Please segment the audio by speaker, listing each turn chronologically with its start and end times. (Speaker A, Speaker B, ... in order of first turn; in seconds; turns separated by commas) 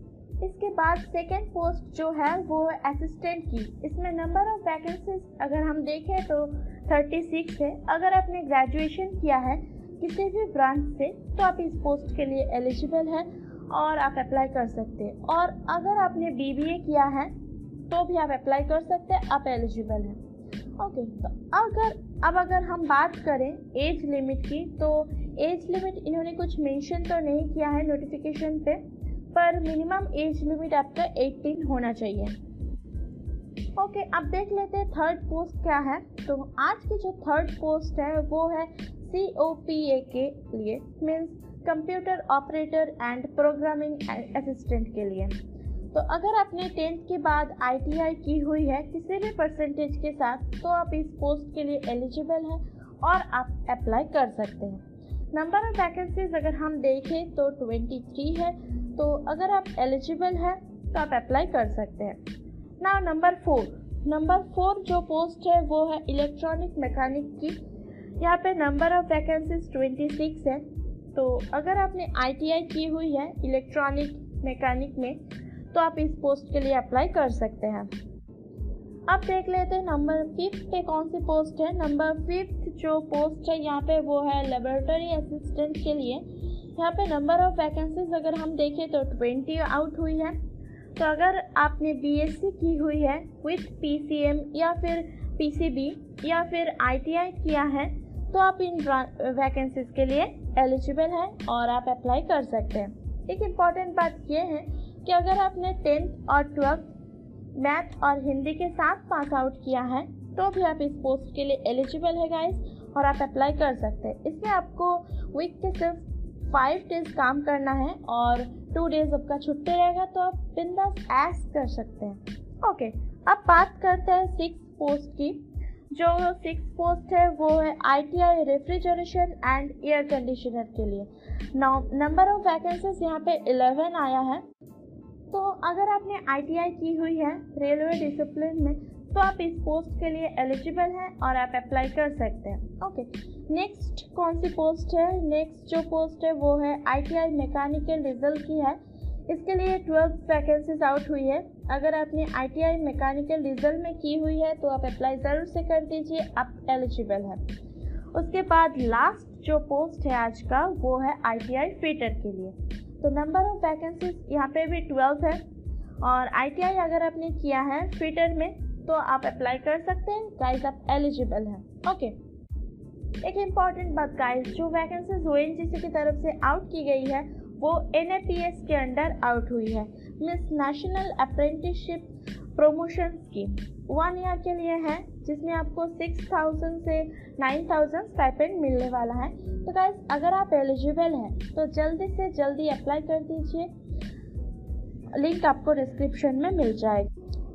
Speaker A: 0.4-17.3, Speaker A: 17.9-20.2, Speaker A: 20.8-28.8, Speaker A: 29.3-32.4, Speaker A: 33.8-45.4, Speaker A: 45.9-62.2, Speaker A: 62.8-67.6, Speaker A: 68.2-75.2, Speaker A: 75.7-77.9, Speaker A: 79.1-90.4, Speaker A: 91.0-106.9, Speaker A: 107.5-125.4, Speaker A: 125.9-134.4, Speaker A: 135.3-157.4, Speaker A: 158.1-165.4, Speaker A: 166.0-172.2, Speaker A: 173.2-193.7, Speaker A: 195.1-197.1